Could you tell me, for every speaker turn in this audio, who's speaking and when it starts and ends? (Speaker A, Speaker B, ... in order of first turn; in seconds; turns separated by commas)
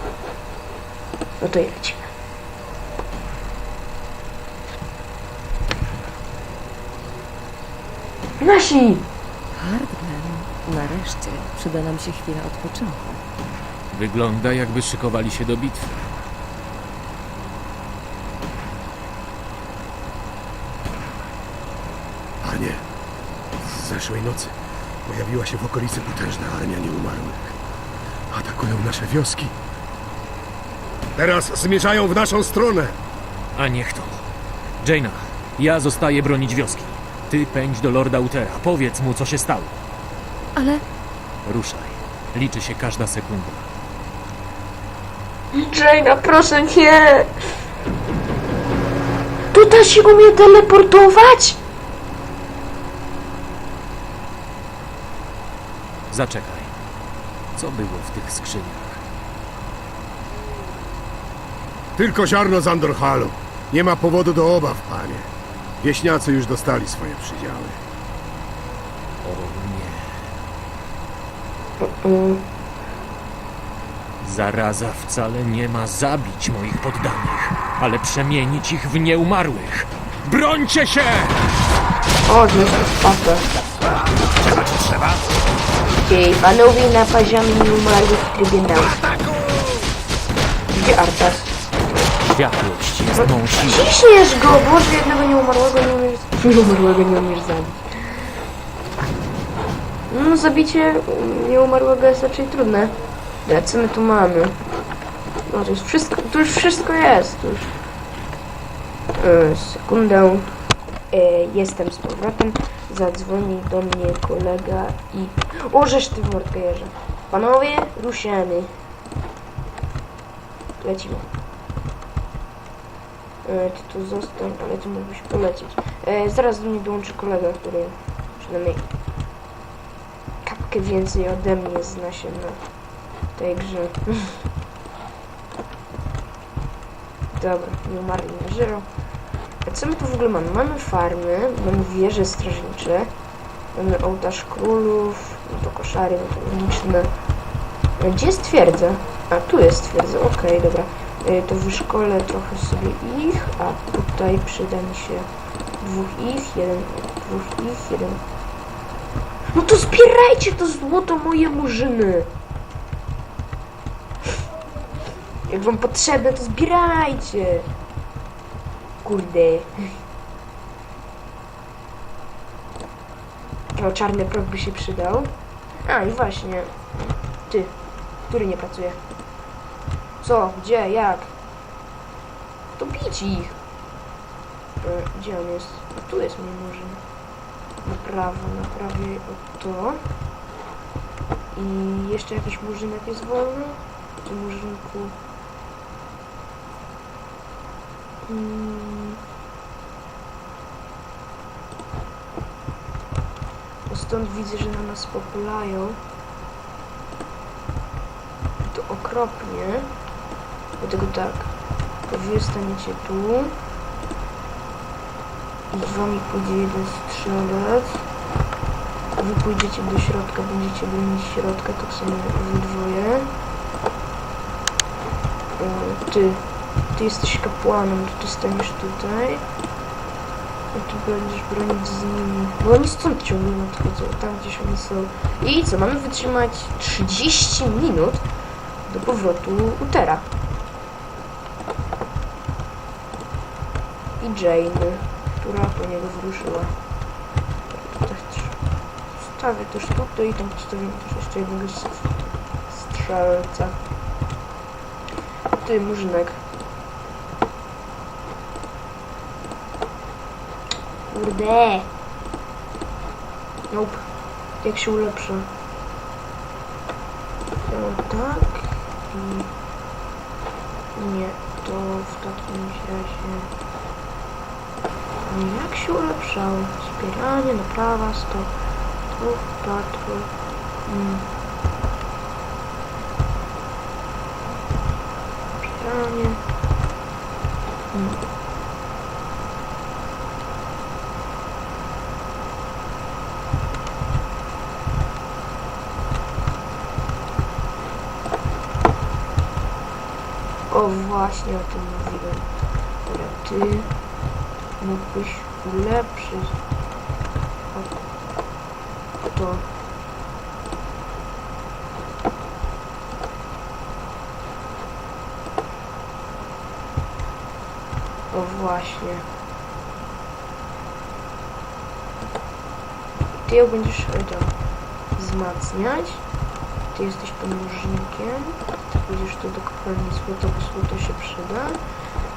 Speaker A: 1.4-2.1, Speaker A: 8.4-9.1, Speaker B: 9.6-13.2, Speaker C: 13.9-16.0, Speaker D: 22.4-22.8, Speaker D: 23.6-27.6, Speaker D: 28.3-29.5, Speaker D: 31.2-32.9, Speaker C: 33.5-34.3, Speaker C: 34.8-39.8, Speaker B: 40.6-40.8, Speaker C: 41.5-43.7, Speaker A: 45.5-47.3, Speaker A: 49.5-51.6, Speaker C: 56.1-56.8, Speaker C: 57.5-59.0, Speaker D: 62.0-65.3, Speaker D: 65.8-67.8, Speaker C: 69.2-70.3, Speaker A: 71.8-72.5, Speaker C: 74.2-81.4, Speaker A: 82.3-83.5, Speaker A: 86.1-89.0, Speaker A: 90.7-91.7, Speaker C: 92.3-93.9, Speaker A: 93.2-97.9, Speaker A: 100.1-102.9, Speaker A: 103.5-104.6, Speaker A: 105.5-107.7, Speaker A: 109.2-110.6, Speaker A: 111.1-118.7, Speaker A: 120.8-121.3, Speaker A: 123.4-128.8, Speaker A: 130.4-132.7, Speaker A: 133.3-134.3, Speaker A: 137.3-138.9, Speaker A: 139.7-143.1, Speaker A: 143.7-147.1, Speaker A: 148.0-155.3, Speaker A: 155.8-158.2, Speaker A: 159.6-162.3, Speaker A: 165.5-167.7, Speaker A: 169.0-169.7, Speaker A: 173.8-177.8, Speaker A: 178.3-179.0, Speaker A: 180.2-181.3, Speaker A: 182.8-183.6, Speaker A: 184.8-187.0, Speaker A: 187.8-190.0, Speaker A: 191.5-195.2, Speaker A: 198.3-199.2, Speaker A: 203.9-206.0, Speaker A: 208.6-209.9, Speaker A: 210.8-211.5, Speaker A: 212.1-213.6, Speaker A: 215.7-218.0, Speaker A: 219.2-223.3, Speaker A: 225.6-229.5, Speaker A: 230.7-238.3, Speaker A: 238.8-240.3, Speaker A: 244.2-246.8, Speaker A: 247.9-248.6, Speaker A: 249.2-252.2, Speaker A: 252.7-253.8, Speaker A: 255.6-256.4, Speaker A: 261.1-261.9, Speaker A: 263.7-264.1, Speaker A: 264.6-265.5, Speaker A: 267.7-269.5, Speaker A: 270.9-273.5, Speaker A: 275.3-278.5, Speaker A: 279.1-280.3, Speaker A: 280.9-281.3, Speaker A: 285.6-286.4, Speaker A: 287.9-288.2, Speaker A: 300.7-303.9, Speaker A: 304.8-306.6, Speaker A: 309.3-309.7, Speaker A: 318.3-319.3, Speaker A: 323.3-324.6, Speaker A: 325.2-326.2, Speaker A: 326.9-331.8